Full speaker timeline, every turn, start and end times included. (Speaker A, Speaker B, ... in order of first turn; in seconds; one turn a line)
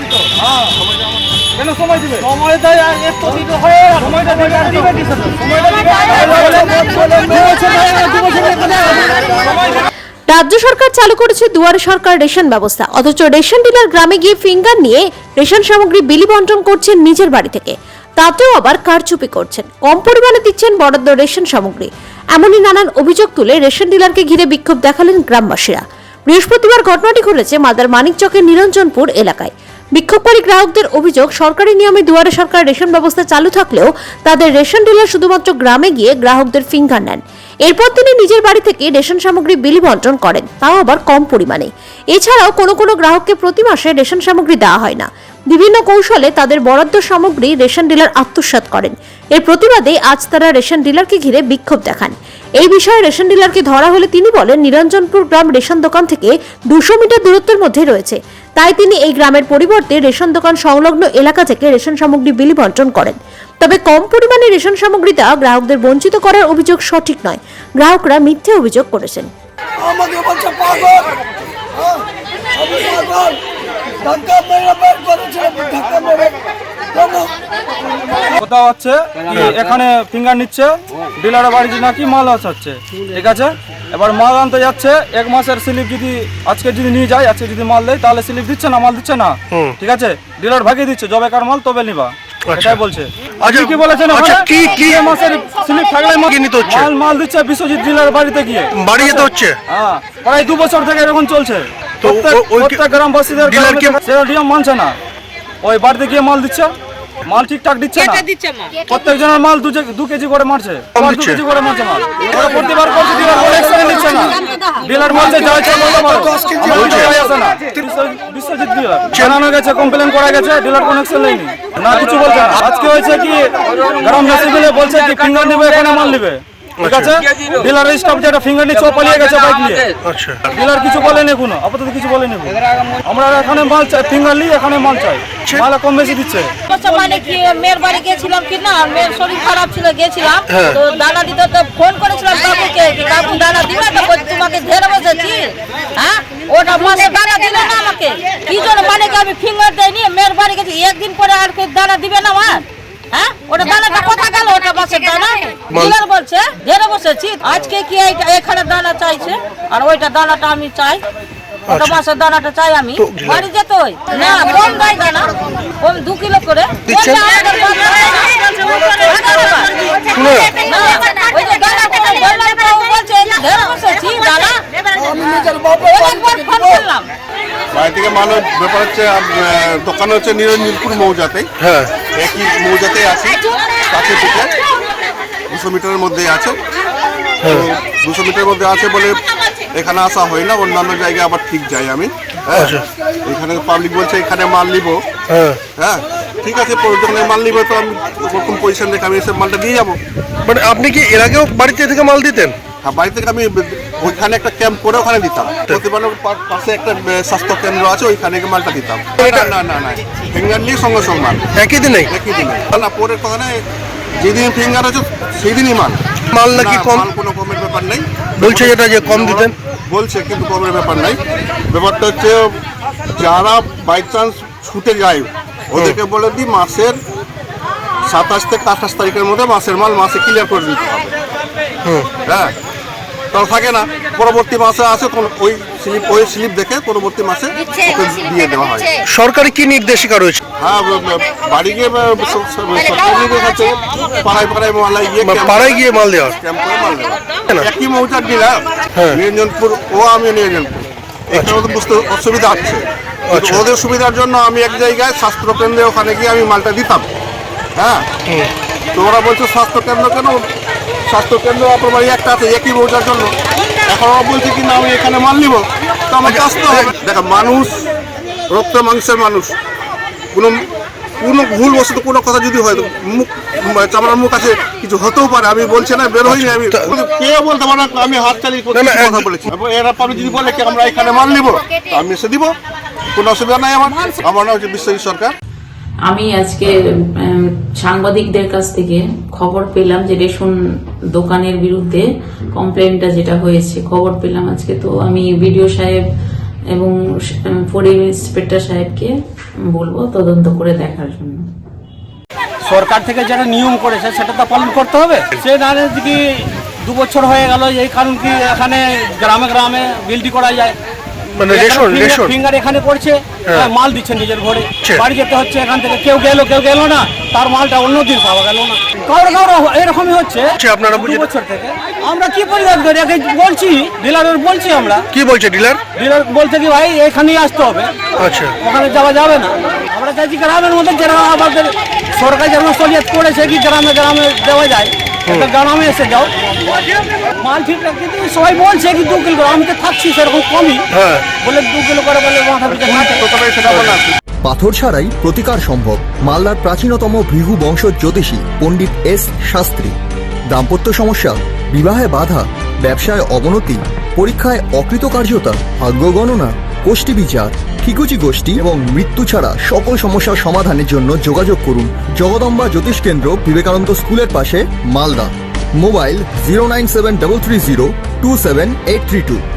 Speaker A: 1.6-2.3
Speaker B: 2.2-9.1
Speaker A: 4.0-4.9
Speaker A: 5.9-7.6
Speaker A: 9.0-9.8
Speaker C: 10.3-69.3
Speaker D: 69.9-71.0
Speaker D: 74.1-76.2
Speaker A: 78.4-105.0
Speaker E: 92.5-92.8
Speaker E: 93.4-95.1
Speaker E: 96.3-96.9
Speaker E: 98.8-99.5
Speaker E: 102.0-104.0
Speaker A: 105.6-106.7
Speaker A: 107.3-108.2
Speaker A: 108.9-129.9
Speaker E: 111.0-111.4
Speaker E: 116.8-117.1
Speaker E: 126.8-127.1
Speaker E: 130.1-130.5
Speaker A: 130.5-136.5
Speaker F: 136.7-161.0
Speaker E: 140.5-140.8
Speaker E: 161.7-162.0
Speaker F: 161.7-174.6
Speaker E: 163.0-163.4
Speaker E: 166.9-167.2
Speaker E: 170.2-170.6
Speaker F: 175.3-177.1
Speaker G: 177.7-181.5
Speaker E: 181.6-181.9
Speaker G: 182.0-184.5
Speaker G: 185.5-186.6
Speaker G: 187.4-189.2
Speaker G: 189.7-195.0
Speaker E: 192.5-192.8
Speaker E: 195.3-195.6
Speaker G: 195.8-200.0
Speaker E: 200.5-202.6
Speaker G: 202.8-211.5
Speaker E: 209.2-209.5
Speaker E: 211.6-212.1
Speaker G: 212.1-213.6
Speaker G: 214.2-221.2
Speaker E: 216.3-217.1
Speaker E: 218.4-219.5
Speaker G: 221.7-222.6
Speaker G: 223.2-227.0
Speaker G: 228.1-231.2
Speaker G: 232.2-232.5
Speaker G: 233.3-238.9
Speaker E: 239.1-240.4
Speaker G: 240.6-245.8
Speaker E: 245.2-246.3
Speaker G: 246.4-257.1
Speaker E: 253.3-253.7
Speaker G: 257.8-258.1
Speaker G: 258.9-260.4
Speaker G: 261.1-263.3
Speaker G: 263.9-267.9
Speaker E: 266.3-266.9
Speaker G: 268.5-269.6
Speaker G: 270.3-270.6
Speaker G: 271.2-282.5
Speaker E: 276.3-276.9
Speaker E: 278.7-279.3
Speaker G: 283.1-285.4
Speaker H: 286.1-290.6
Speaker H: 291.1-296.1
Speaker H: 296.7-299.1
Speaker H: 299.7-301.5
Speaker B: 302.6-310.7
Speaker E: 311.4-312.4
Speaker B: 311.5-325.1
Speaker E: 320.6-321.3
Speaker E: 325.1-325.8
Speaker B: 325.9-328.0
Speaker E: 328.2-328.5
Speaker B: 328.6-340.9
Speaker E: 340.9-341.2
Speaker B: 341.4-343.2
Speaker G: 342.7-344.1
Speaker I: 344.4-350.0
Speaker I: 350.5-369.4